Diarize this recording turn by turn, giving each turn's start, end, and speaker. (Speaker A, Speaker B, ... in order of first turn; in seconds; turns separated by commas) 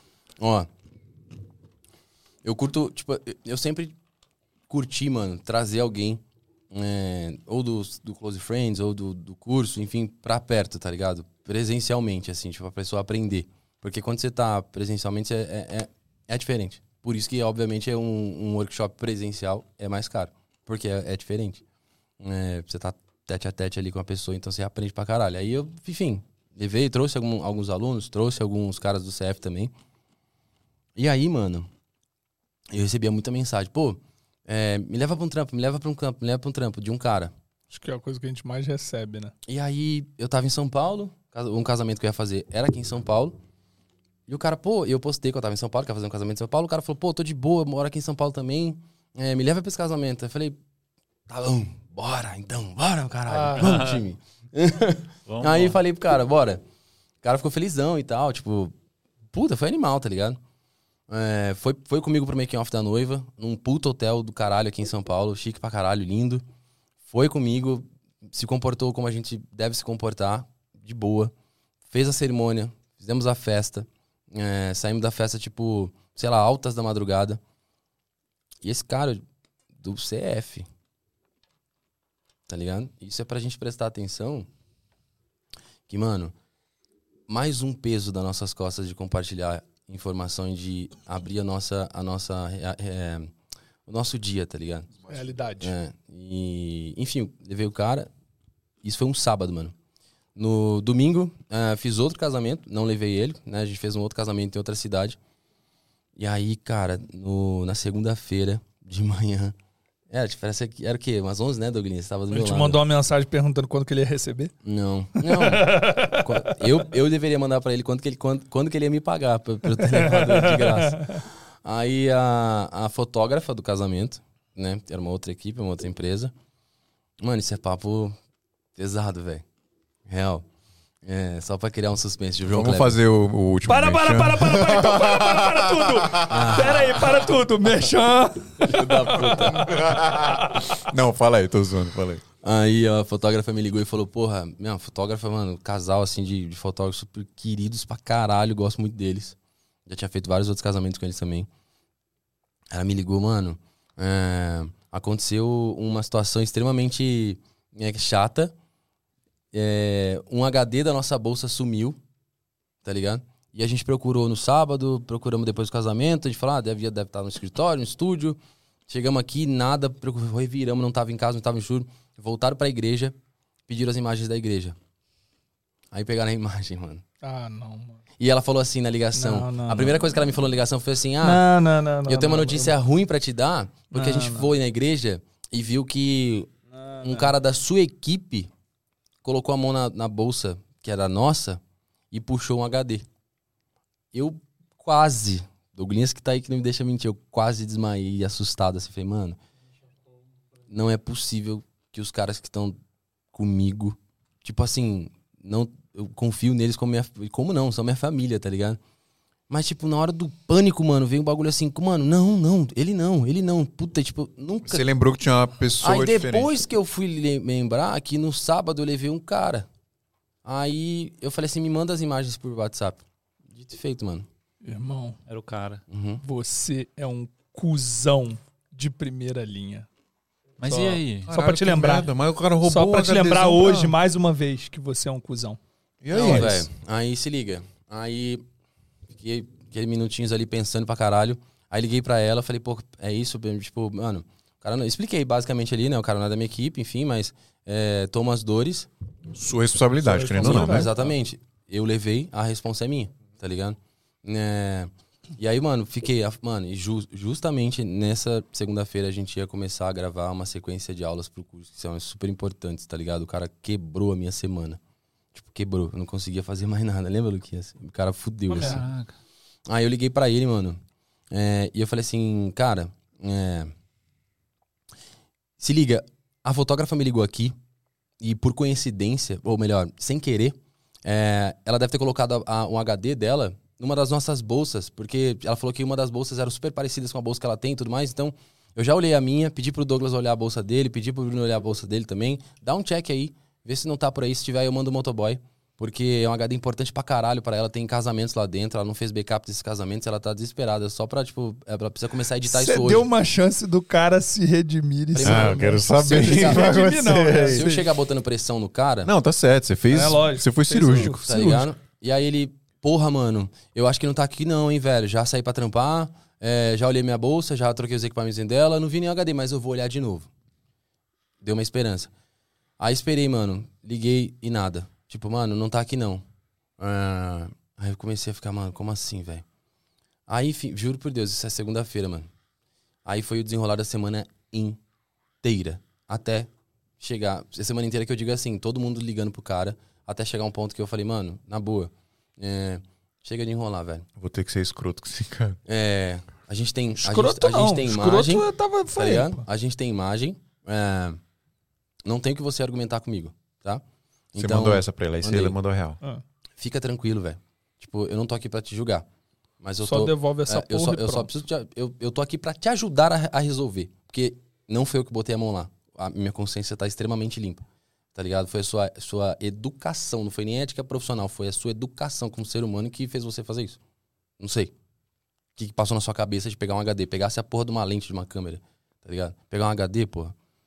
Speaker A: 0.4-0.7, Speaker A: 2.4-4.0, Speaker A: 4.7-21.6, Speaker A: 22.2-29.7, Speaker A: 31.0-31.7, Speaker A: 32.7-37.3, Speaker B: 37.7-39.3, Speaker A: 39.5-43.4, Speaker A: 44.3-50.6, Speaker A: 51.3-56.6, Speaker B: 53.3-54.0, Speaker C: 53.6-54.0, Speaker C: 55.3-55.8, Speaker A: 57.2-58.7, Speaker A: 59.3-60.4, Speaker A: 61.1-66.5, Speaker A: 67.1-71.3, Speaker A: 71.9-77.4, Speaker A: 78.6-79.2, Speaker A: 79.8-80.7, Speaker A: 82.5-84.5, Speaker A: 85.9-86.3, Speaker A: 87.3-93.3, Speaker A: 93.9-95.1, Speaker B: 95.1-95.8, Speaker A: 95.6-98.1, Speaker A: 98.8-99.7, Speaker A: 100.4-105.2, Speaker A: 106.2-109.5, Speaker A: 110.1-112.8, Speaker B: 112.3-114.5, Speaker A: 114.6-126.3, Speaker B: 115.2-116.3, Speaker B: 119.8-121.1, Speaker A: 127.2-128.2, Speaker A: 128.8-129.4, Speaker A: 130.1-130.4, Speaker A: 131.0-133.0, Speaker D: 132.5-136.4, Speaker B: 133.7-140.6, Speaker A: 136.3-137.1, Speaker A: 138.6-139.8, Speaker D: 139.3-142.2, Speaker A: 142.4-151.5, Speaker A: 152.7-158.5, Speaker A: 159.5-162.0, Speaker A: 162.8-173.1, Speaker A: 173.7-174.8, Speaker A: 175.9-177.0, Speaker B: 177.2-178.0, Speaker A: 178.2-181.4, Speaker B: 179.1-180.1, Speaker B: 181.2-182.7, Speaker A: 182.1-188.5, Speaker B: 183.9-184.5, Speaker B: 186.8-187.3, Speaker A: 189.2-193.1, Speaker A: 194.1-199.4, Speaker A: 200.7-202.8, Speaker A: 203.3-208.8, Speaker A: 209.5-214.8, Speaker D: 214.7-216.6, Speaker A: 215.8-219.7, Speaker A: 220.4-224.3, Speaker B: 224.6-225.2, Speaker C: 225.3-225.8, Speaker A: 225.9-226.2, Speaker B: 226.2-229.9, Speaker C: 230.6-231.3, Speaker B: 230.6-232.1, Speaker D: 231.3-234.0, Speaker B: 232.6-235.6, Speaker D: 236.0-236.7, Speaker A: 236.1-238.4, Speaker B: 236.1-236.6, Speaker A: 239.1-248.9, Speaker D: 249.3-251.0, Speaker B: 250.0-251.1, Speaker A: 250.4-264.8, Speaker A: 265.4-268.8, Speaker C: 268.5-269.1, Speaker B: 268.5-268.8, Speaker A: 269.7-270.8, Speaker A: 271.3-273.7, Speaker A: 275.6-277.6, Speaker A: 278.2-303.1, Speaker B: 302.4-307.9, Speaker A: 305.1-309.1, Speaker D: 305.2-307.7, Speaker D: 309.1-311.7, Speaker B: 309.9-311.3, Speaker A: 311.2-320.3, Speaker A: 321.4-322.1, Speaker A: 322.8-326.2, Speaker A: 326.8-329.4, Speaker A: 330.3-332.3, Speaker A: 333.1-334.8, Speaker A: 335.4-344.1, Speaker D: 344.2-345.6, Speaker A: 345.7-351.2, Speaker B: 347.0-349.4, Speaker A: 352.1-355.6, Speaker D: 354.4-356.0, Speaker A: 356.6-359.1, Speaker A: 359.6-367.6, Speaker B: 359.8-361.3, Speaker A: 368.1-373.8, Speaker A: 374.4-374.7, Speaker A: 375.6-380.4